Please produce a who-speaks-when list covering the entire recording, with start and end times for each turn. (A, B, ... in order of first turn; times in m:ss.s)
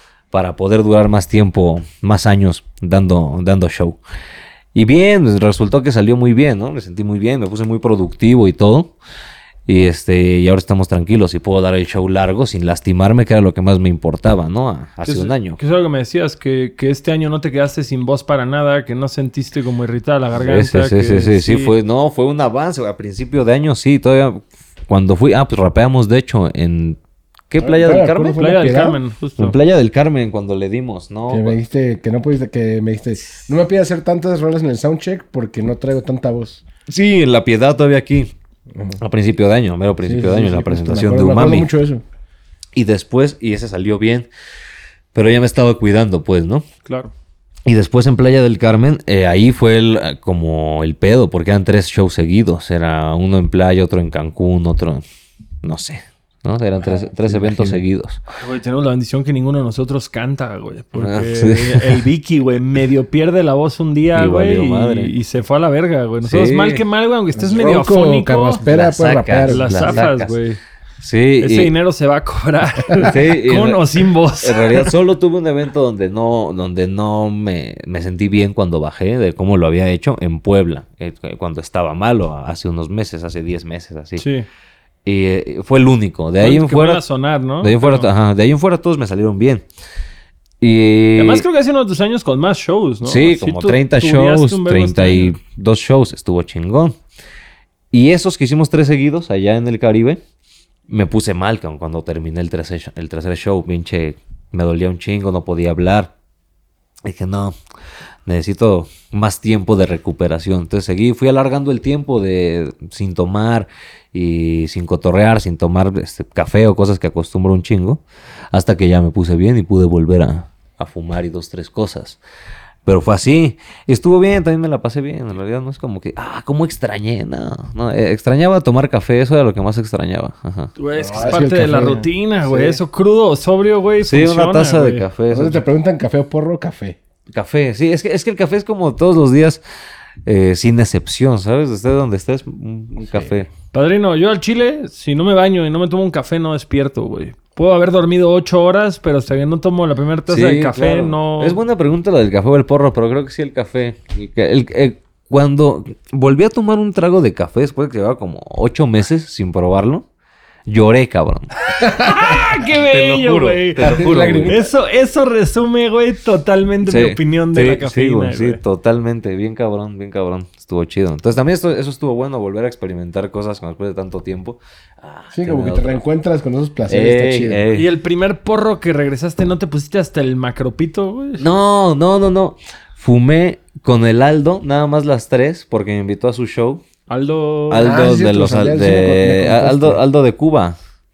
0:00.3-0:04.0 A
0:04.7-0:09.0 A
0:09.7-0:15.6 A
0:15.0-0:21.7 B
0:20.4-0:27.0 A
0:27.5-0:28.5 A
0:27.6-0:29.0 C
0:28.4-0:29.5 B
0:29.4-0:31.6 A
0:31.3-0:36.6 C
0:36.9-0:38.3 A
0:38.7-0:39.0 C
0:39.0-0:41.7 A
0:40.0-0:42.0 C
0:42.7-0:44.3 A
0:45.1-0:46.6 A
0:46.8-0:47.1 B
0:47.6-0:55.0 A
0:55.6-0:58.2 A
0:56.8-0:57.8 C
0:58.3-1:08.6 B
1:00.9-1:02.0 A
1:04.1-1:05.1 A
1:06.2-1:06.8 A
1:07.3-1:10.1 C
1:08.6-1:10.4 A
1:09.4-1:10.6 B
1:11.0-1:11.7 A
1:11.4-1:14.9 B
1:13.0-1:24.2 A
1:24.2-1:24.5 B
1:25.0-1:27.0 A
1:26.4-1:28.1 B
1:27.6-1:29.6 A
1:30.6-1:31.4 A
1:31.2-1:35.3 B
1:33.0-1:37.0 A
1:37.9-1:40.2 A
1:40.9-1:46.1 A
1:47.0-1:47.5 A
1:48.2-1:58.0 A
1:58.5-2:02.2 A
2:02.8-2:10.7 A
2:10.8-2:15.0 B
2:11.0-2:12.8 C
2:14.0-2:15.6 A
2:15.3-2:17.0 C
2:17.3-2:19.6 A
2:20.2-2:23.5 A
2:23.0-2:23.4 C
2:23.7-2:31.6 B
2:30.3-2:40.0 A
2:40.7-2:44.6 A
2:41.8-2:48.6 B
2:43.8-2:44.6 C
2:46.8-2:56.0 A
2:55.3-2:57.6 C
2:56.9-2:57.9 A
2:57.7-3:01.4 B
3:01.4-3:06.8 A
3:07.1-3:08.0 B
3:07.7-3:10.8 A
3:07.8-3:10.0 C